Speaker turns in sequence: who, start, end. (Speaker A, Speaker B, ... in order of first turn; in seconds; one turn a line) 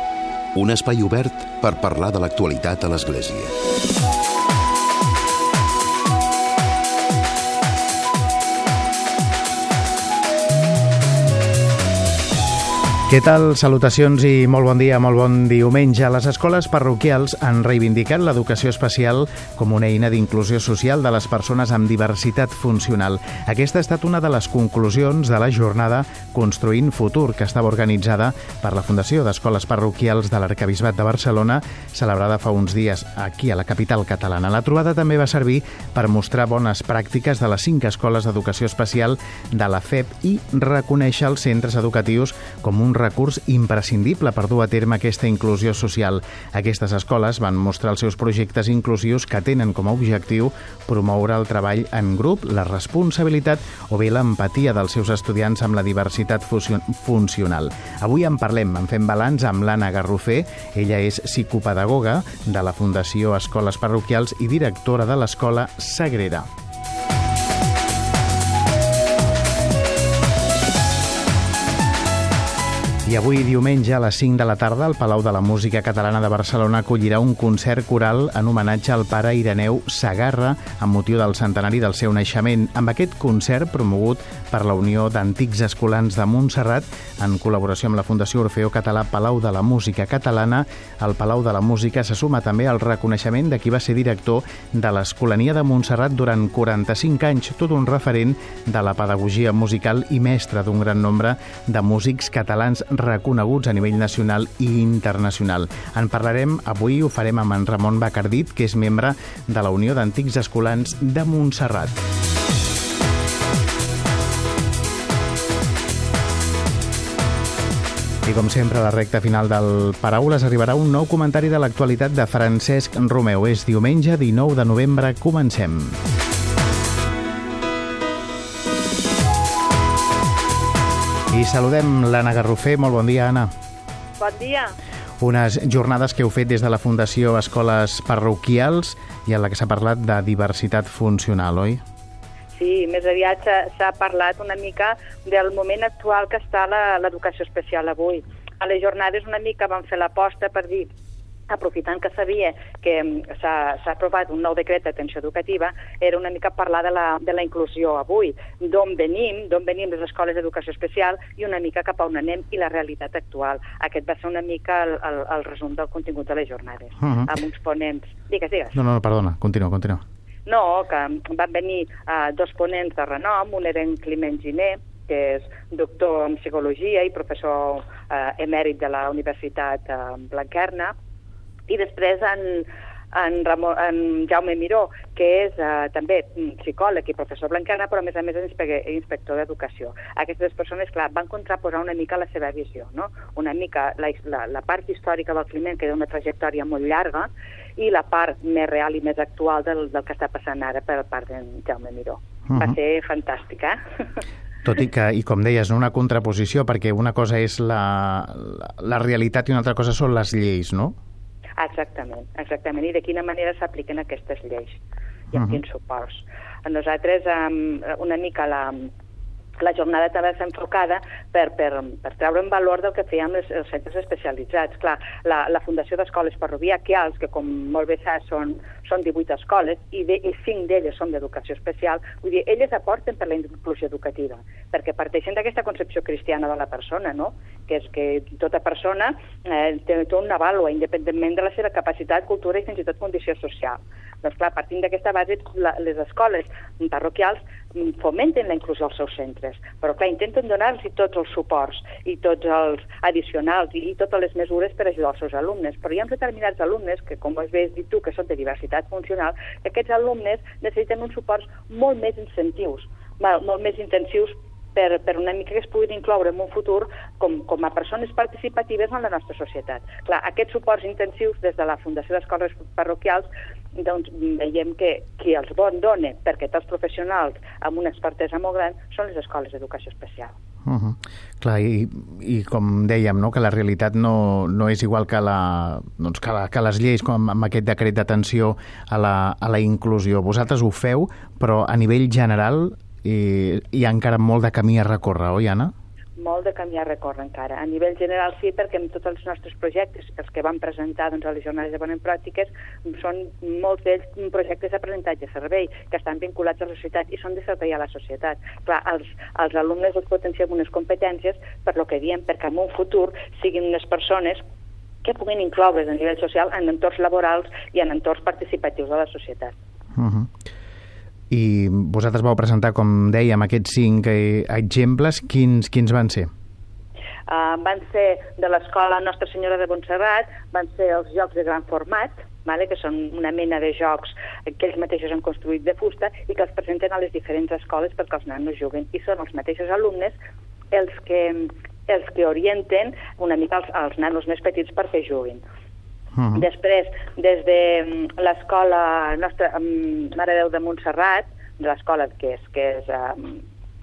Speaker A: 0.5-3.5
Speaker B: 13.1-66.5
Speaker B: 73.0-112.0
Speaker B: 118.2-126.0
Speaker B: 131.3-133.5
Speaker C: 134.2-134.7
Speaker B: 135.2-141.8
Speaker C: 142.5-150.9
Speaker C: 151.5-168.8
Speaker B: 167.0-167.3
Speaker B: 168.7-170.0
Speaker C: 170.4-180.9
Speaker C: 181.7-203.8
Speaker B: 202.5-202.7
Speaker B: 204.6-210.9
Speaker C: 211.6-214.8
Speaker C: 215.3-218.9
Speaker C: 219.6-280.3
Speaker B: 280.6-295.7
Speaker C: 296.2-314.4
Speaker C: 315.0-319.5
Speaker B: 319.9-320.3
Speaker B: 321.3-326.3
Speaker C: 327.3-340.1
Speaker C: 340.7-345.4
Speaker B: 346.1-346.4
Speaker C: 346.3-353.4